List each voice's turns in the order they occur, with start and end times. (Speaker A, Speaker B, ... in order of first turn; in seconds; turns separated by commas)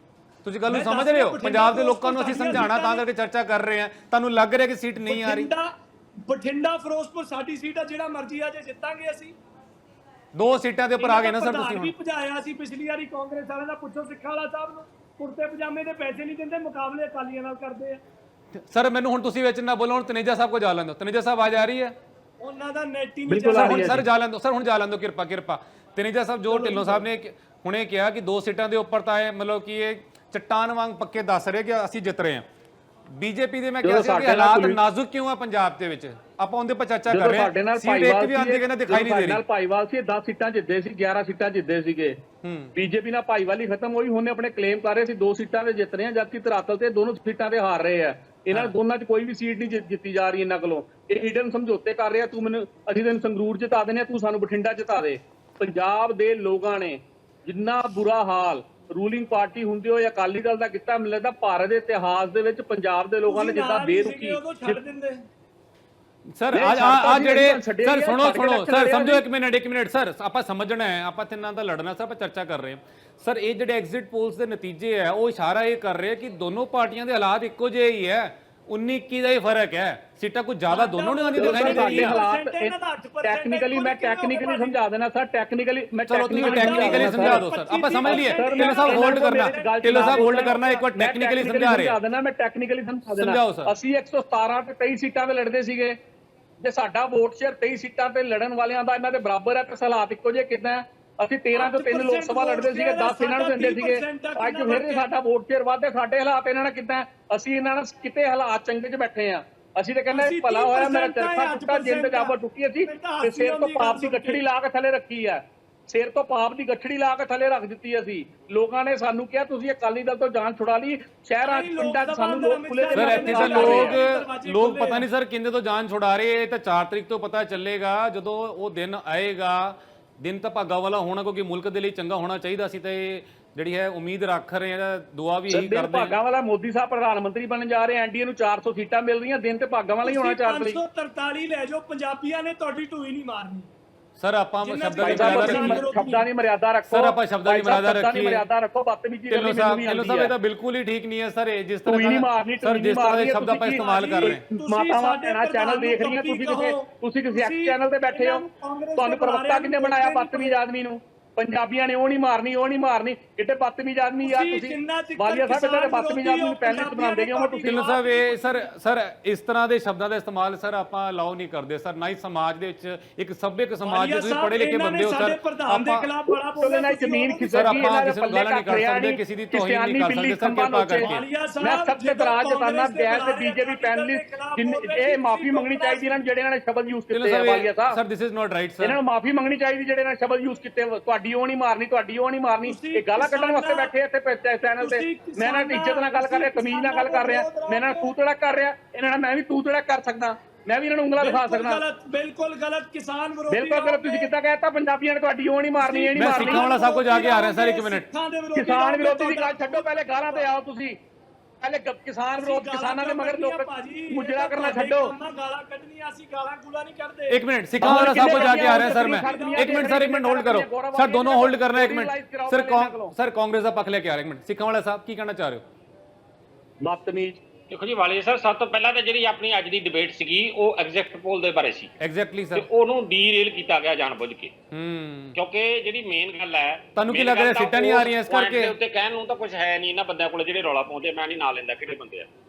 Speaker A: 0.4-5.5, Speaker B: 0.7-3.0, Speaker B: 5.0-5.7, Speaker B: 6.2-9.3, Speaker A: 10.3-11.9, Speaker B: 11.0-18.0, Speaker A: 18.5-21.9, Speaker B: 22.4-24.0, Speaker C: 23.3-24.0, Speaker A: 23.5-32.5, Speaker B: 26.5-27.1, Speaker A: 33.1-39.4, Speaker C: 33.8-34.8, Speaker C: 37.1-42.2, Speaker A: 42.4-42.7, Speaker C: 42.7-64.8, Speaker B: 63.2-65.2, Speaker A: 66.3-82.2, Speaker C: 66.5-69.2, Speaker B: 80.7-84.8, Speaker C: 81.3-87.5, Speaker A: 86.1-92.0, Speaker B: 86.3-90.6, Speaker C: 88.0-96.0, Speaker A: 93.1-93.7, Speaker C: 96.6-124.0, Speaker B: 101.5-105.1, Speaker B: 110.1-114.4, Speaker B: 121.4-125.0, Speaker A: 123.0-136.1, Speaker C: 135.5-140.8, Speaker B: 140.0-143.7, Speaker A: 144.2-145.8, Speaker B: 144.6-146.2, Speaker C: 145.0-150.3, Speaker A: 146.9-148.4, Speaker A: 149.3-154.4, Speaker C: 151.8-158.4, Speaker B: 153.7-160.6, Speaker C: 159.0-167.8, Speaker B: 164.2-168.7, Speaker A: 167.7-176.1, Speaker B: 173.8-177.9, Speaker C: 176.3-188.0, Speaker A: 177.5-181.2, Speaker B: 181.0-186.2, Speaker A: 187.1-189.0, Speaker C: 188.8-201.8, Speaker B: 192.6-193.9, Speaker B: 194.8-198.1, Speaker B: 201.2-204.3, Speaker C: 203.5-206.7, Speaker B: 205.8-210.4, Speaker A: 206.1-208.1, Speaker C: 208.5-211.0, Speaker C: 211.6-215.1, Speaker B: 212.4-220.0, Speaker A: 217.3-225.6, Speaker C: 217.8-223.1, Speaker C: 226.8-227.4, Speaker D: 227.7-231.9, Speaker A: 232.0-232.6, Speaker D: 232.5-234.5, Speaker A: 234.7-235.4, Speaker D: 235.3-242.3, Speaker A: 236.9-238.8